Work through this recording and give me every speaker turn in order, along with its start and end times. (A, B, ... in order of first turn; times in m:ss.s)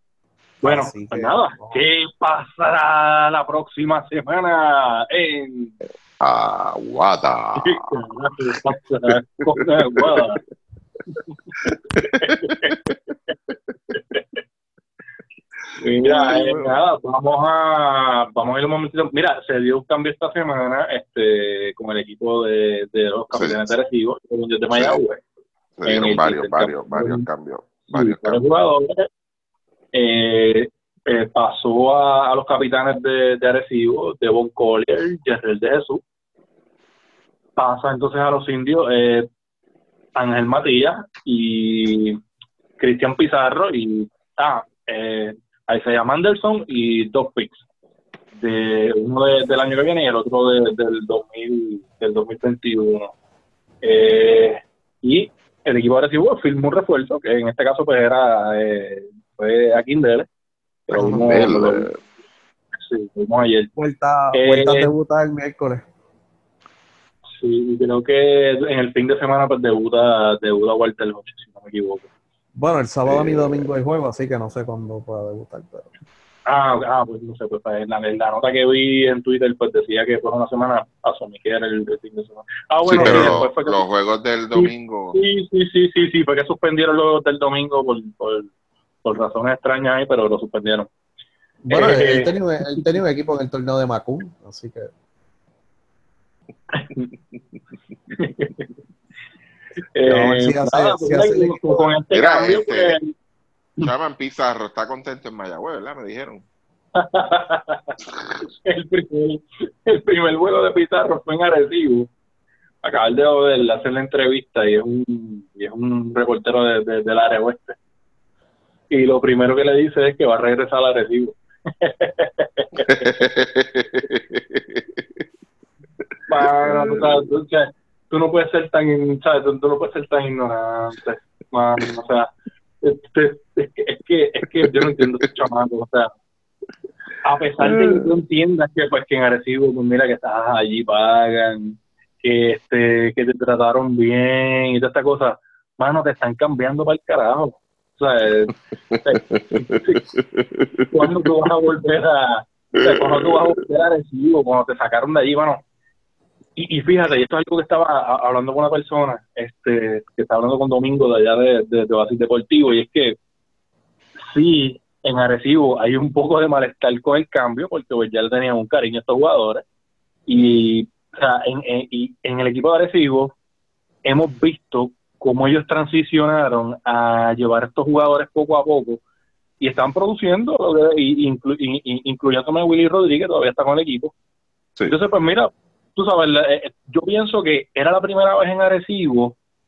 0:00.6-0:01.8 A
0:00.6-0:05.8 B
0:06.2-0:08.0 C
0:07.6-0:10.4 B
0:09.6-0:10.2 C
0:11.6-0:12.8 C
0:12.0-0:12.8 B
0:14.0-0:14.2 B
0:15.7-0:16.7 C
0:15.8-0:25.2 B
0:23.4-0:23.7 C
0:24.7-0:25.0 C
0:25.8-0:28.4 C
0:25.9-0:27.2 B
0:27.9-0:29.1 B
0:29.9-0:36.0 B
0:37.6-0:39.3 B
0:40.2-0:42.2 B
0:42.8-0:47.6 B
0:48.4-0:53.1 B
0:53.8-1:00.3 B
1:00.9-1:01.9 B
1:00.9-1:02.0 C
1:01.0-1:01.2 A
1:02.8-1:03.7 B
1:03.8-1:05.9 A
1:04.3-1:04.9 B
1:07.4-1:12.1 B
1:12.6-1:15.9 A
1:13.1-1:13.7 C
1:16.5-1:23.8 B
1:22.9-1:25.2 C
1:22.9-1:23.4 A
1:24.6-1:28.5 B
1:29.0-1:30.9 B
1:31.6-1:34.9 A
1:31.7-1:32.9 B
1:36.7-1:37.1 B
1:38.1-1:38.7 B
1:40.0-1:43.1 B
1:40.1-1:41.9 A
1:42.1-1:43.0 C
1:43.8-1:46.4 C
1:47.0-1:48.0 B
1:48.6-1:52.1 B
1:52.8-1:57.8 B
1:58.9-2:03.2 B
2:02.8-2:05.0 C
2:06.3-2:12.3 B
2:06.6-2:07.2 C
2:12.8-2:16.1 B
2:14.6-2:15.0 C
2:17.2-2:30.0 B
2:17.6-2:18.1 C
2:28.9-2:30.9 C
2:30.9-2:35.6 B
2:32.8-2:33.4 C
2:36.6-2:43.2 B
2:44.2-2:49.6 B
2:50.3-2:53.4 B
2:54.0-2:59.0 B
2:59.6-3:04.1 B
3:04.9-3:09.4 B